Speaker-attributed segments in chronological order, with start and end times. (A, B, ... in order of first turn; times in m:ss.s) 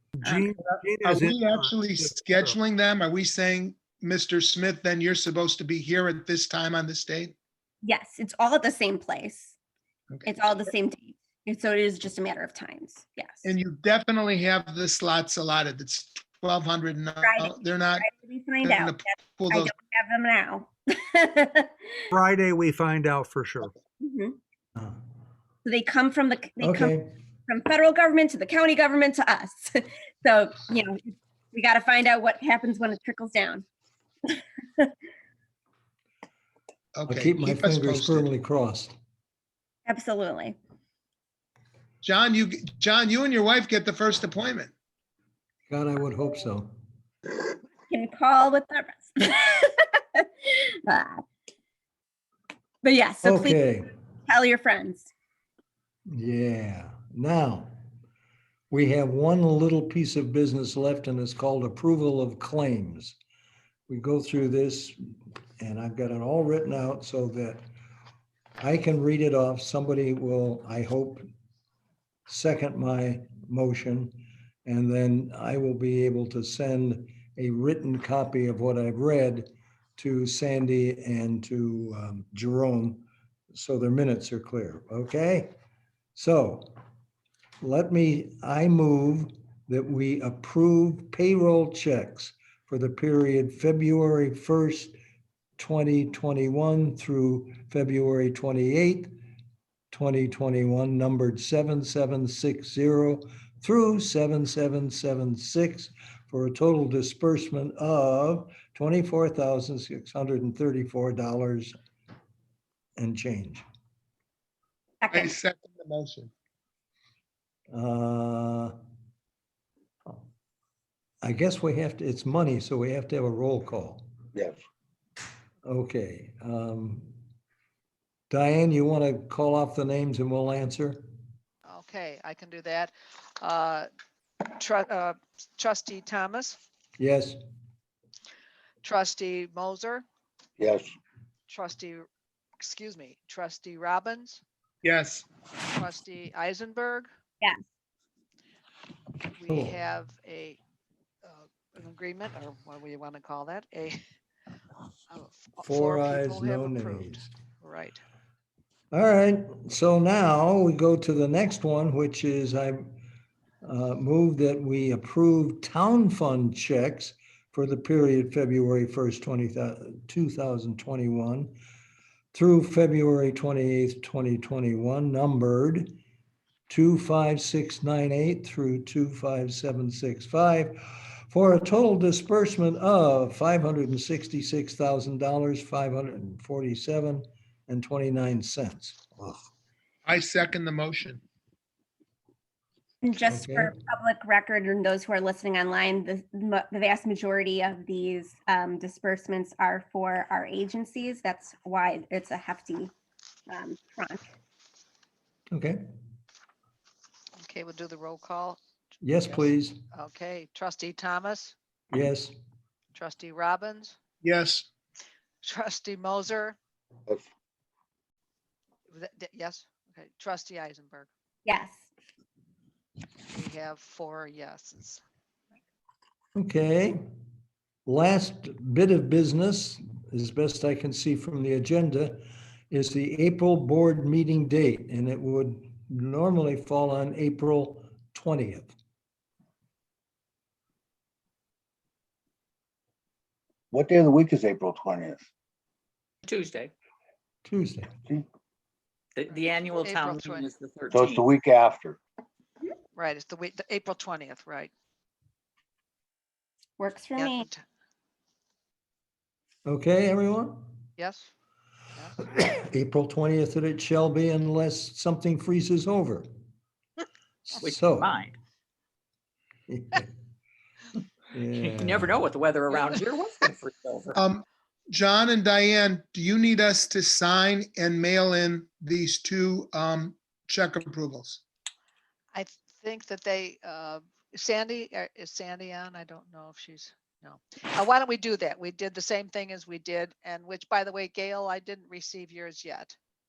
0:00.2-0:01.2 A
0:00.2-0:01.6 B
0:01.0-0:07.3 C
0:07.8-0:09.5 D
0:10.2-0:13.5 D
0:13.4-0:18.1 C
0:17.2-0:22.0 D
0:18.6-0:19.7 C
0:22.1-0:23.6 B
0:22.4-0:23.4 A
0:24.0-0:24.4 D
0:25.6-0:27.0 D
0:26.6-0:27.0 A
0:27.5-0:33.6 D
0:34.3-0:34.9 D
0:37.0-0:38.3 C
0:37.1-0:38.9 A
0:39.9-0:40.6 D
0:42.0-0:44.7 C
0:45.7-0:46.7 A
0:47.9-0:51.2 D
0:52.8-0:53.6 D
0:53.2-0:53.9 A
0:54.3-0:55.1 D
0:56.1-0:57.7 A
0:58.7-1:03.2 A
1:03.9-1:05.0 A
1:05.6-1:07.6 A
1:08.6-1:11.2 A
1:12.3-1:25.5 A
1:26.2-1:26.8 A
1:27.6-1:34.9 A
1:35.6-1:39.2 A
1:39.9-1:51.7 A
1:53.0-1:53.6 A
1:55.0-1:55.3 D
1:55.1-1:56.3 C
1:57.7-1:58.7 A
2:01.2-2:04.0 A
2:05.6-2:07.1 A
2:08.3-2:11.1 A
2:11.6-2:13.9 E
2:14.5-2:16.6 E
2:17.0-2:17.4 A
2:18.8-2:20.0 E
2:20.6-2:20.9 F
2:21.5-2:22.1 E
2:22.6-2:24.4 E
2:24.8-2:25.2 C
2:25.6-2:27.1 E
2:29.3-2:30.6 E
2:29.5-2:29.8 A
2:31.2-2:34.0 E
2:35.1-2:38.0 E
2:35.6-2:37.3 A
2:38.9-2:42.9 A
2:43.6-2:51.5 A
2:52.3-2:56.0 A
2:56.7-3:09.4 A
3:10.0-3:11.2 C
3:13.0-3:22.9 D
3:13.3-3:13.7 A
3:23.5-3:24.3 D
3:25.5-3:25.8 A
3:27.4-3:28.6 E
3:29.0-3:29.8 A
3:29.3-3:31.5 E
3:31.9-3:32.3 A
3:32.9-3:34.0 E
3:34.2-3:34.6 C
3:35.4-3:36.6 E
3:38.9-3:41.1 E
3:41.4-3:41.9 D
3:43.3-3:45.0 E
3:46.3-3:47.0 A
3:47.8-3:58.7 A
4:03.7-4:05.3 F
4:06.2-4:06.7 G
4:07.4-4:07.9 A
4:09.2-4:11.3 G
4:09.3-4:10.5 E
4:10.9-4:12.0 F
4:13.0-4:14.7 E
4:16.8-4:17.5 D
4:17.2-4:17.6 E
4:19.6-4:20.7 A
4:21.0-4:21.3 E
4:22.3-4:26.3 A
4:27.5-4:28.1 A
4:27.6-4:28.3 G
4:29.7-4:30.1 A
4:31.3-4:32.2 A
4:31.5-4:34.2 G
4:34.1-4:41.4 C
4:42.3-4:52.9 E